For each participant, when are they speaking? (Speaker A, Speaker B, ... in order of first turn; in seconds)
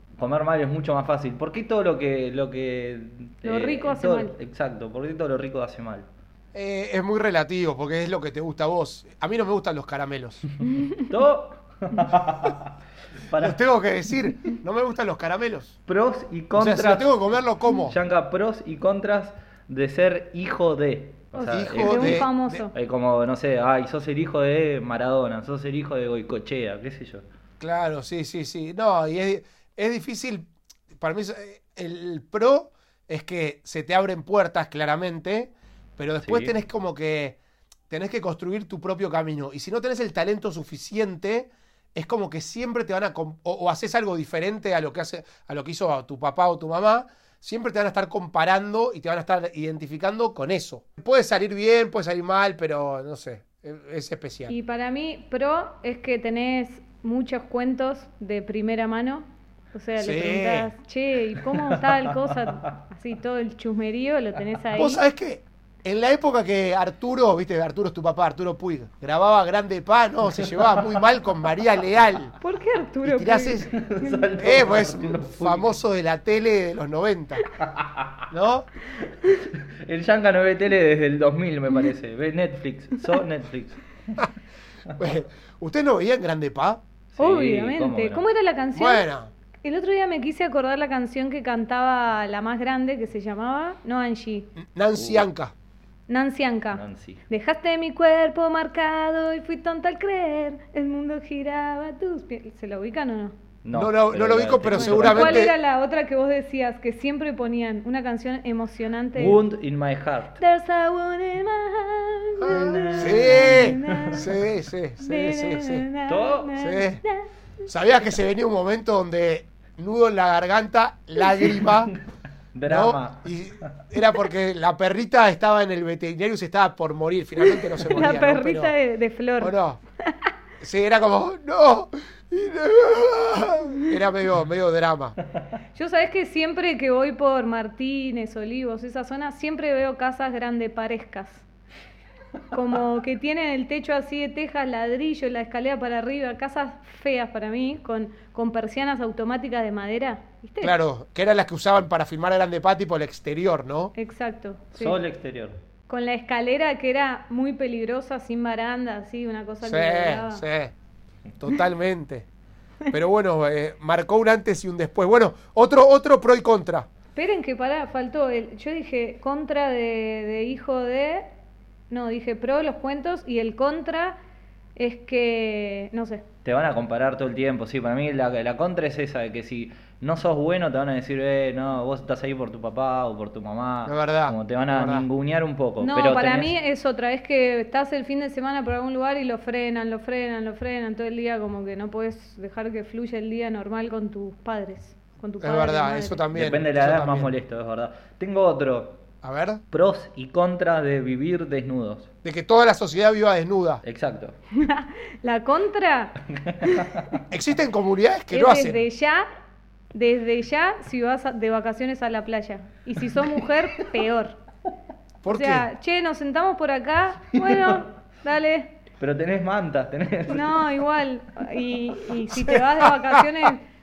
Speaker A: 0.2-6.1, 10.9-12.7, 13.3-13.6, 15.9-17.1, 17.8-27.2, 36.2-36.5, 61.5-62.5, 70.3-71.0, 73.7-75.7, 77.6-78.2, 79.2-84.3, 87.1-88.2, 95.0-95.2, 96.7-97.2, 103.6-105.5, 109.2-110.4, 112.5-114.2, 116.1-116.5, 121.6-121.9, 122.5-123.7, 154.8-155.6, 176.4-186.5, 196.3-199.0, 199.7-202.1, 203.8-204.3, 206.3-207.1, 217.3-217.8, 219.0-220.6
Speaker B: 3.4-4.3, 21.4-22.7, 54.5-65.0, 72.4-74.3, 87.2-89.1, 89.6-94.5, 96.1-103.3, 104.7-109.4, 110.4-114.3, 115.0-117.2, 127.4-130.3, 135.7-141.4, 142.5-150.8, 153.9-155.0, 155.9-160.4, 167.1-171.3, 171.9-174.2, 174.8-176.2, 185.8-196.2, 204.5-207.2, 208.3-209.3, 209.9-214.4, 215.3-218.7, 220.3-223.6
Speaker C: 6.5-10.4, 13.3-15.7, 16.5-17.9, 21.5-22.6, 27.6-37.4, 37.9-54.5, 60.0-60.7, 64.7-72.3, 73.0-73.7, 74.4-77.5, 78.3-78.7, 85.0-86.8, 88.7-89.3, 94.6-95.5, 103.7-105.5, 112.4-115.9, 116.6-117.0, 117.7-121.9, 122.7-128.7, 129.4-129.8, 130.6-135.2, 150.6-153.9, 159.6-160.7, 161.4-162.3, 162.9-166.9, 183.8-185.1, 195.4-197.3, 199.2-199.6, 202.2-203.8, 207.3-208.8, 215.2-215.7, 222.3-223.2